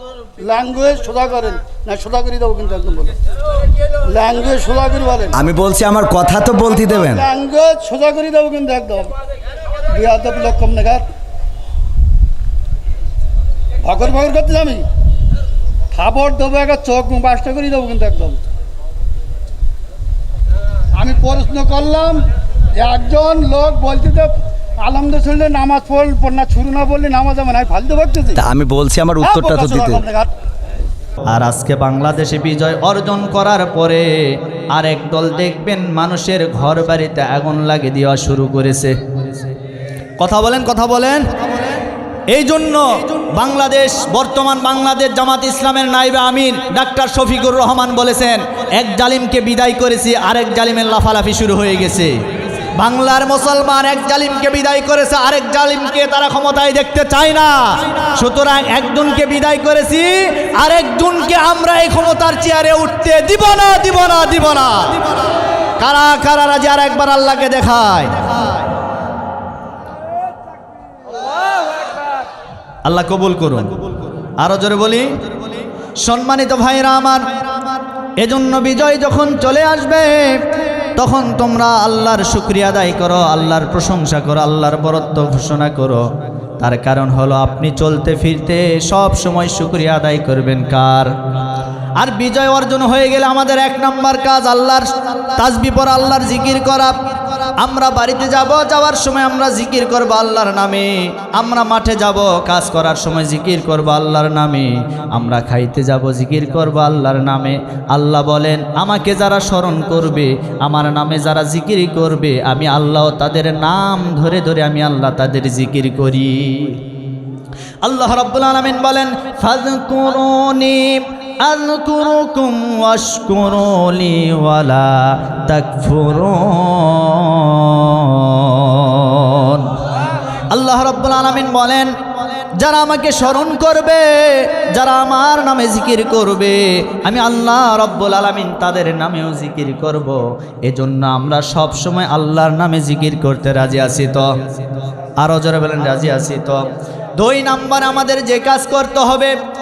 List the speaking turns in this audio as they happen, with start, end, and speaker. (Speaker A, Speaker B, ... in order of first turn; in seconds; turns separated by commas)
Speaker A: 0.4-3.1, Speaker A: 4.0-5.4, Speaker B: 5.3-7.3, Speaker A: 6.6-9.1, Speaker A: 9.9-11.1, Speaker A: 13.8-14.8, Speaker A: 15.9-18.4, Speaker A: 20.9-28.4, Speaker B: 28.4-30.0, Speaker A: 29.2-30.3, Speaker C: 31.3-39.0, Speaker C: 40.2-41.7, Speaker C: 42.3-52.1, Speaker C: 52.8-65.2, Speaker C: 65.8-68.2, Speaker C: 72.9-73.7, Speaker C: 74.4-75.2, Speaker C: 76.0-77.3, Speaker C: 78.2-86.0, Speaker C: 86.6-91.1, Speaker C: 92.0-97.0, Speaker C: 97.6-116.8, Speaker C: 117.8-129.7, Speaker C: 130.5-131.9, Speaker C: 132.6-144.3, Speaker C: 145.2-149.4